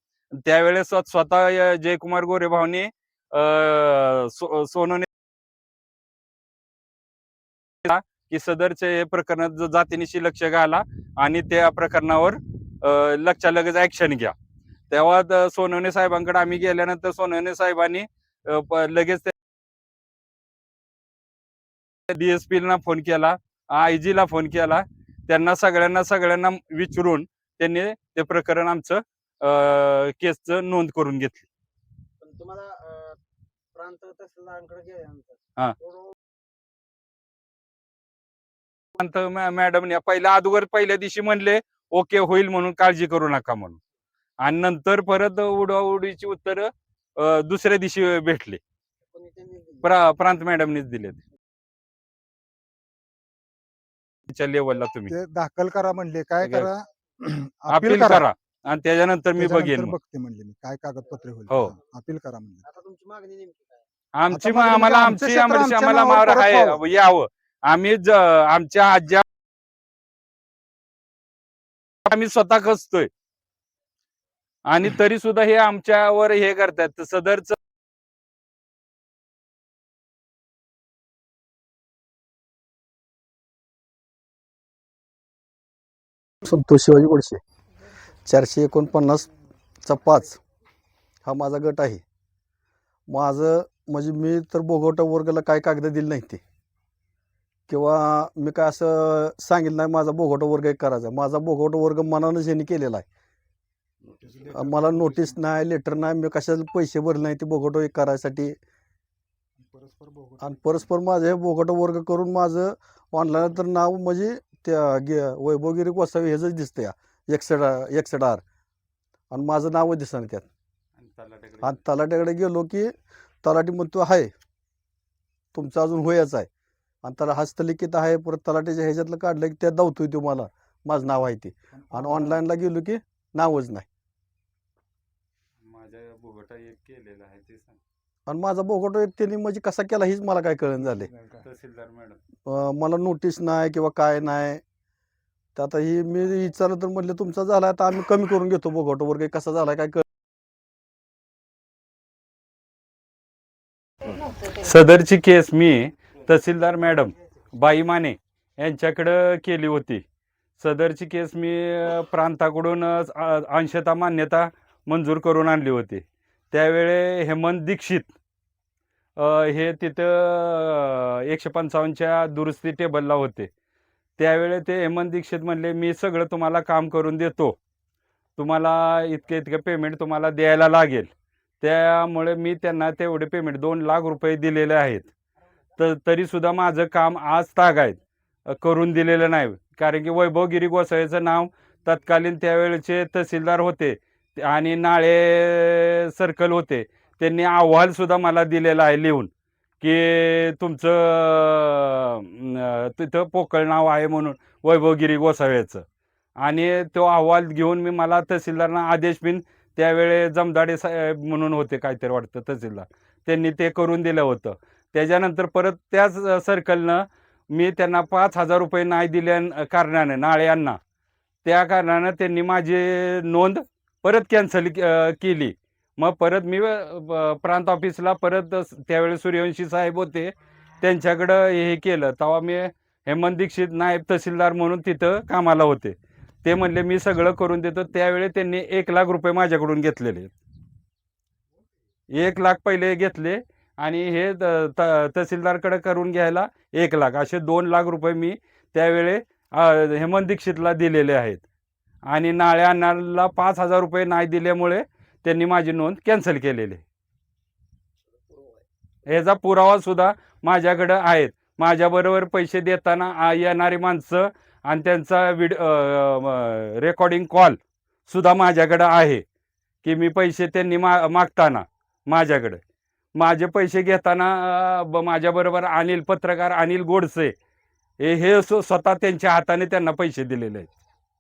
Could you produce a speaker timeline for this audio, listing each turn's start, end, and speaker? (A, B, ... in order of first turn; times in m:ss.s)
0:00.4-0:05.1 A
0:07.8-0:14.3 A
0:14.9-0:19.3 A
0:22.1-0:31.5 A
0:32.2-0:33.2 B
0:33.7-0:36.1 B
0:39.0-0:43.8 A
0:44.4-0:48.6 A
0:49.1-0:50.0 B
0:49.8-0:51.2 A
0:54.3-0:55.1 A
0:55.1-0:58.3 C
0:56.4-0:56.7 A
0:57.7-1:00.0 A
0:59.4-1:02.6 C
1:01.5-1:01.7 A
1:02.6-1:03.9 B
1:04.2-1:09.2 A
1:04.3-1:06.8 C
1:12.1-1:13.1 A
1:14.6-1:17.6 A
1:26.4-1:27.4 D
1:28.2-1:29.3 D
1:29.8-1:30.4 D
1:31.2-1:32.0 D
1:33.1-1:36.4 D
1:37.7-1:43.0 D
1:44.1-1:45.4 C
1:44.5-1:48.6 D
1:49.6-1:50.9 C
1:50.4-1:58.4 D
1:59.3-2:00.5 D
2:01.0-2:01.8 A
2:01.6-2:04.3 D
2:05.5-2:06.5 D
2:07.0-2:13.9 D
2:11.8-2:12.4 C
2:15.6-2:17.8 A
2:18.3-2:21.1 D
2:21.3-2:22.2 A
2:22.4-2:24.6 D
2:25.6-2:30.0 D
2:34.5-2:40.0 A
2:40.6-2:48.1 A
2:49.2-2:53.5 A
2:54.2-2:57.6 A
2:58.4-3:05.1 A
3:05.8-3:19.3 A
3:19.8-3:25.8 A
3:26.4-3:40.8 A
3:41.4-4:00.3 A
4:02.1-4:11.4 A
4:12.1-4:16.8 A
4:19.1-4:29.2 A
4:29.8-4:32.6 A
4:33.2-4:37.3 A
4:38.0-4:40.7 A